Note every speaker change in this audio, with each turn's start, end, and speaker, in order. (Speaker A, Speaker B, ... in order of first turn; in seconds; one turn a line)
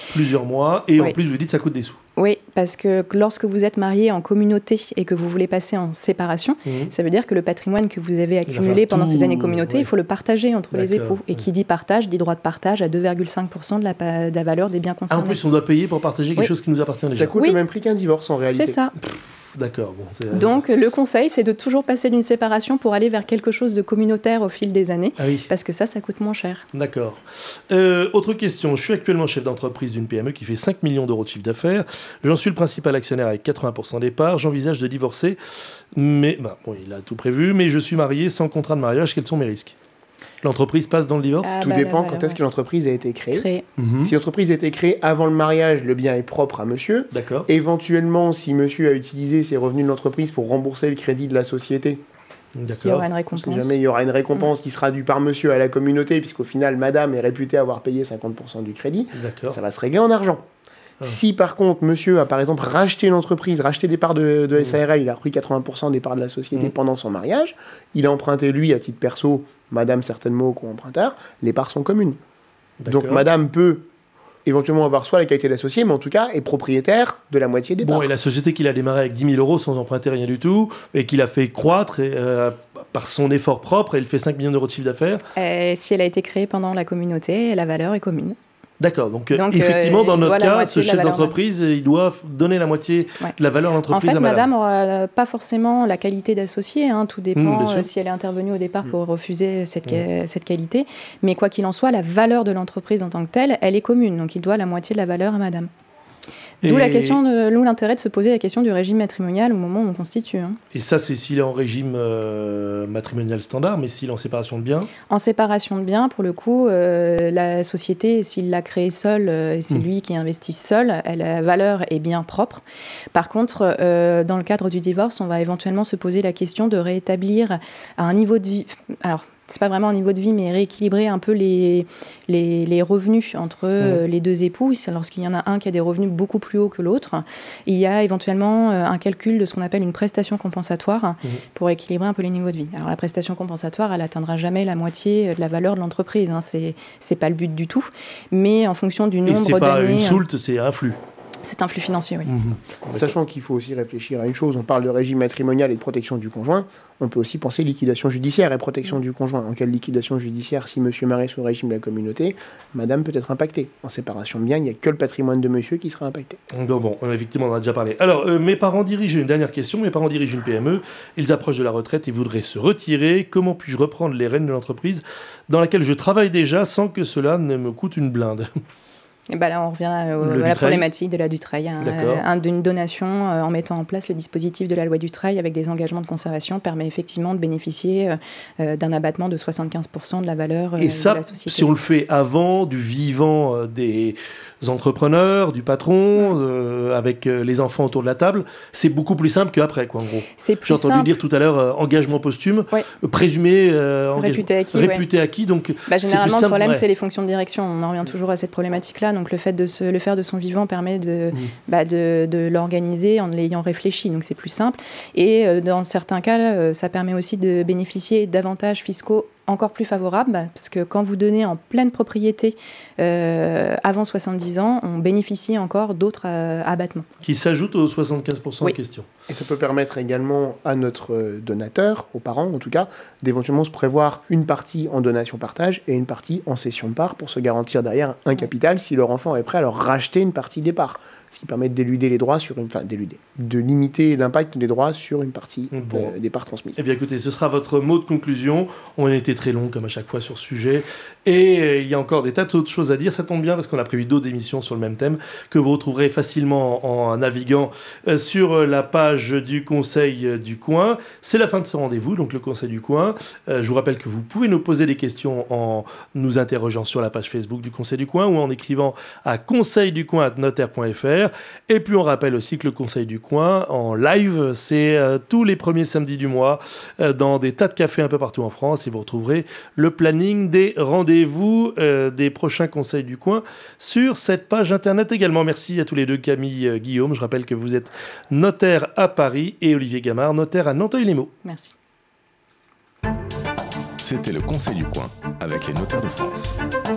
Speaker A: 0.1-2.0
Speaker B: 2.2-15.4
Speaker A: 6.7-6.9
Speaker A: 8.5-9.9
Speaker A: 10.7-11.4
Speaker A: 15.1-17.4
Speaker C: 17.1-18.8
Speaker B: 18.5-18.9
Speaker A: 19.6-20.6
Speaker B: 20.3-26.6
Speaker A: 25.2-25.5
Speaker A: 26.7-35.4
Speaker A: 36.0-39.8
Speaker A: 40.4-41.6
Speaker B: 41.4-42.4
Speaker C: 41.6-43.5
Speaker B: 43.3-43.6
Speaker A: 43.8-44.1
Speaker C: 44.0-52.0
Speaker A: 47.1-47.5
Speaker A: 52.6-53.1
Speaker B: 52.8-53.8
Speaker C: 53.3-60.5
Speaker A: 59.1-59.6
Speaker C: 61.0-72.2
Speaker A: 72.8-73.2
Speaker C: 72.9-73.9
Speaker C: 74.5-78.1
Speaker A: 77.8-85.2
Speaker B: 85.4-88.4
Speaker A: 88.8-94.5
Speaker B: 89.3-91.3
Speaker B: 93.9-105.7
Speaker A: 97.4-97.9
Speaker A: 106.6-107.2
Speaker B: 106.6-110.6
Speaker A: 110.7-114.9
Speaker B: 115.1-122.6
Speaker B: 123.1-150.2
Speaker A: 149.3-151.0
Speaker B: 151.4-152.3
Speaker A: 152.3-153.1
Speaker C: 152.9-166.4
Speaker A: 166.5-178.5
Speaker B: 179.3-191.7
Speaker A: 180.2-180.9
Speaker A: 181.8-182.2
Speaker A: 190.8-206.8
Speaker B: 200.4-201.1
Speaker B: 204.2-205.1
Speaker B: 205.9-227.1
Speaker A: 227.2-229.1
Speaker C: 229.3-246.8
Speaker A: 245.7-246.1
Speaker A: 246.8-291.3
Speaker B: 291.4-291.8
Speaker D: 294.0-296.6